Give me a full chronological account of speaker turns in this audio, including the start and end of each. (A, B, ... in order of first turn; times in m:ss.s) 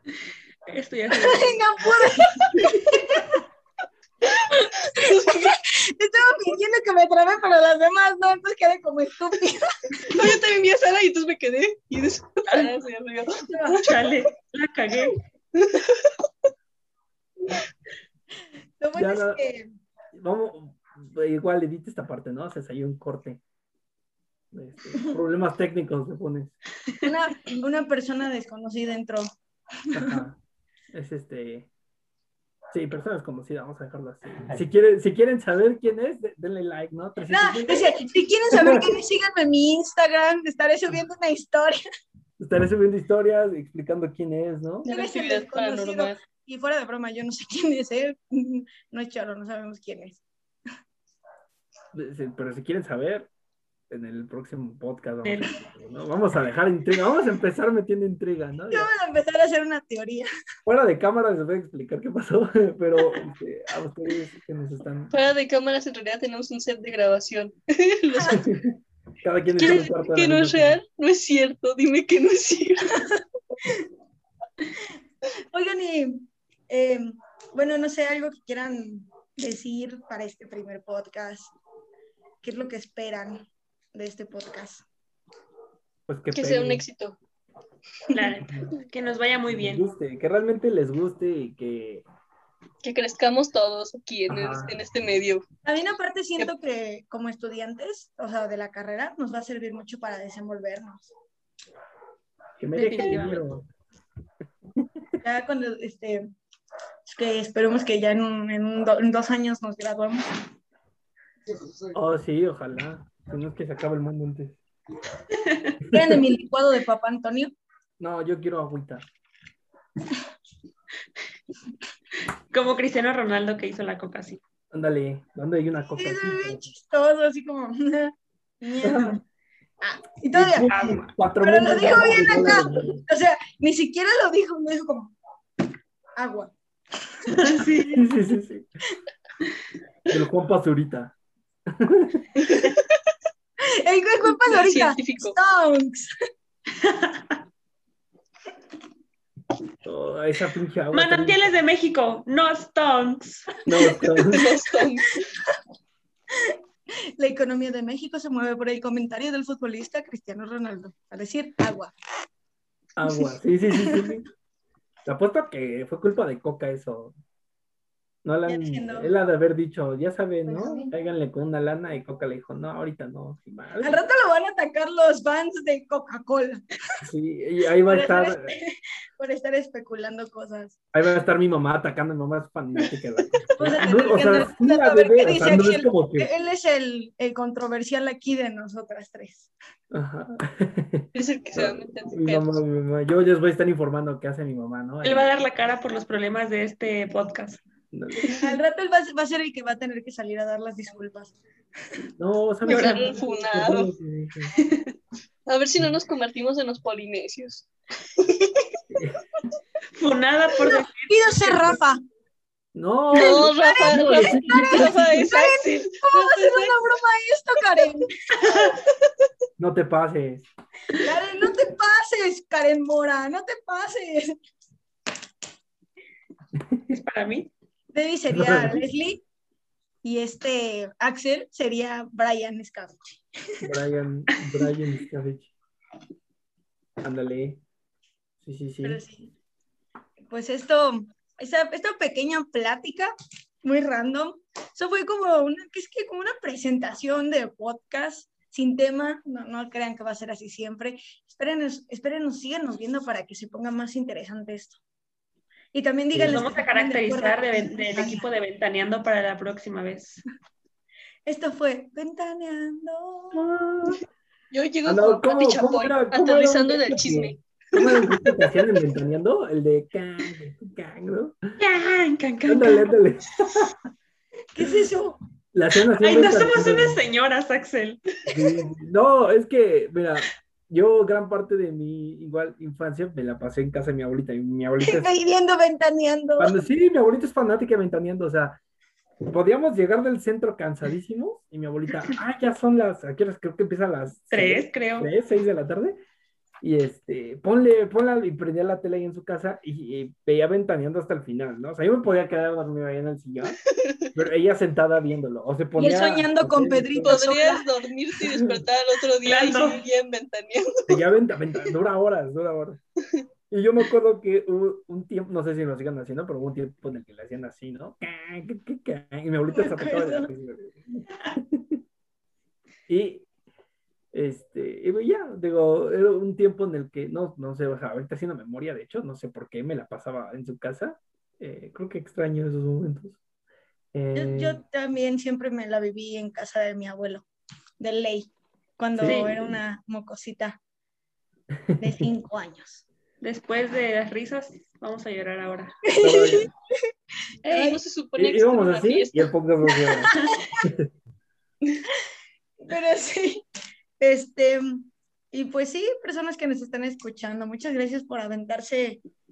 0:00.7-0:01.6 A
0:01.1-0:03.4 B
0:04.5-0:10.1 B
0:04.8-0:05.6 C
0:10.0-0:13.9 C
0:13.4-0:13.8 B
0:13.8-0:15.2 A
0:15.6-0:16.1 C
0:18.8-0:19.7 B
0:19.0-0:19.4 D
0:20.1-0:23.4 D
0:24.5-0:26.6 D
0:27.0-0:29.3 B
0:29.9-0:30.2 B
0:29.9-0:30.4 D
0:30.9-0:31.7 D
0:32.7-0:38.9 D
0:37.3-0:41.8 B
0:42.4-0:44.9 D
0:44.8-0:46.2 C
0:44.8-0:50.2 B
0:51.9-0:53.3 D
0:53.9-0:58.9 D
0:55.2-0:55.6 A
0:58.7-1:00.3 B
1:00.7-1:05.1 D
1:05.1-1:08.5 C
1:08.1-1:08.4 B
1:08.3-1:10.8 D
1:09.6-1:13.1 C
1:15.5-1:21.5 B
1:22.4-1:24.8 B
1:26.1-1:26.8 D
1:26.3-1:27.2 C
1:28.1-1:29.8 A
1:29.5-1:32.0 D
1:32.8-1:35.4 C
1:34.3-1:34.7 D
1:35.6-1:41.1 B
1:42.6-1:43.7 D
1:42.7-1:43.4 A
1:45.2-1:46.3 B
1:47.1-1:50.3 B
1:51.9-1:54.6 D
1:55.3-1:55.8 A
1:55.9-1:56.3 D
1:55.9-1:57.5 B
1:58.0-1:59.0 D
2:02.5-2:04.4 A
2:04.7-2:06.7 D
2:06.0-2:09.2 B
2:08.8-2:09.2 D
2:09.8-2:10.7 B
2:10.3-2:13.0 D
2:10.7-2:11.2 A
2:11.4-2:15.1 B
2:16.2-2:16.5 B
2:17.3-2:18.0 A
2:17.9-2:18.7 D
2:20.1-2:21.1 D
2:21.7-2:22.3 D
2:23.6-2:26.1 B
2:24.2-2:25.4 C
2:26.8-2:27.2 A
2:29.8-2:31.4 D
2:30.9-2:33.5 A
2:33.6-2:34.6 D
2:34.3-2:35.3 C
2:37.2-2:41.9 B
2:43.0-2:44.3 D
2:45.1-2:47.2 D
2:48.2-2:54.0 D
2:48.4-2:49.1 B
2:50.5-2:50.9 B
2:53.8-2:56.6 B
2:57.0-2:58.5 D
2:57.9-3:00.8 B
3:00.9-3:06.3 D
3:03.6-3:09.5 B
3:09.9-3:15.3 D
3:11.1-3:12.5 C
3:15.0-3:17.6 A
3:17.9-3:18.4 D
3:18.3-3:21.4 B
3:22.2-3:24.5 D
3:22.6-3:23.1 A
3:22.6-3:23.9 C
3:24.6-3:25.0 A
3:25.5-3:28.8 C
3:28.9-3:29.2 D
3:30.0-3:31.8 A
3:31.1-3:32.0 B
3:32.7-3:35.2 D
3:33.1-3:36.8 C
3:33.1-3:38.6 B
3:38.4-3:38.8 A
3:39.6-3:40.5 D
3:41.0-3:44.4 B
3:46.9-3:47.5 A
3:47.9-3:49.2 B
3:48.3-3:48.8 D
3:50.0-3:53.6 B
3:53.6-3:55.5 D
3:57.0-3:57.6 D
3:58.4-3:59.0 D
3:58.8-3:59.3 B
4:00.3-4:03.1 B
4:03.6-4:14.8 B
4:15.7-4:18.3 B
4:16.1-4:16.6 D
4:16.3-4:20.2 A
4:21.3-4:23.4 B
4:23.3-4:24.0 D
4:24.5-4:27.4 C
4:24.8-4:31.5 D
4:31.6-4:32.9 A
4:32.5-4:33.8 D
4:34.6-4:35.2 B
4:35.5-4:37.0 D
4:36.0-4:38.0 A
4:38.3-4:45.1 D
4:44.8-4:46.5 B
4:46.4-4:48.6 D
4:49.3-4:56.0 D
4:54.3-4:55.1 A
4:56.6-5:03.6 D
5:03.5-5:04.1 C
5:04.1-5:07.2 D
5:05.8-5:07.7 B
5:07.0-5:11.0 C
5:08.3-5:08.6 D
5:09.2-5:09.8 A
5:10.9-5:12.8 D
5:13.5-5:21.8 D
5:19.5-5:20.3 B
5:22.9-5:23.3 D
5:24.1-5:33.2 D
5:33.9-5:34.6 D
5:34.1-5:37.3 B
5:37.8-5:40.6 B
5:38.9-5:39.6 D
5:39.0-5:39.3 A
5:41.7-5:42.1 D
5:41.8-5:42.8 B
5:43.2-5:45.8 A
5:45.8-5:46.5 B
5:46.0-5:46.5 D
5:47.4-5:49.3 C
5:47.5-5:47.8 B
5:48.2-5:50.9 D
5:49.9-5:50.6 B
5:52.6-5:53.4 B
5:54.0-5:59.0 B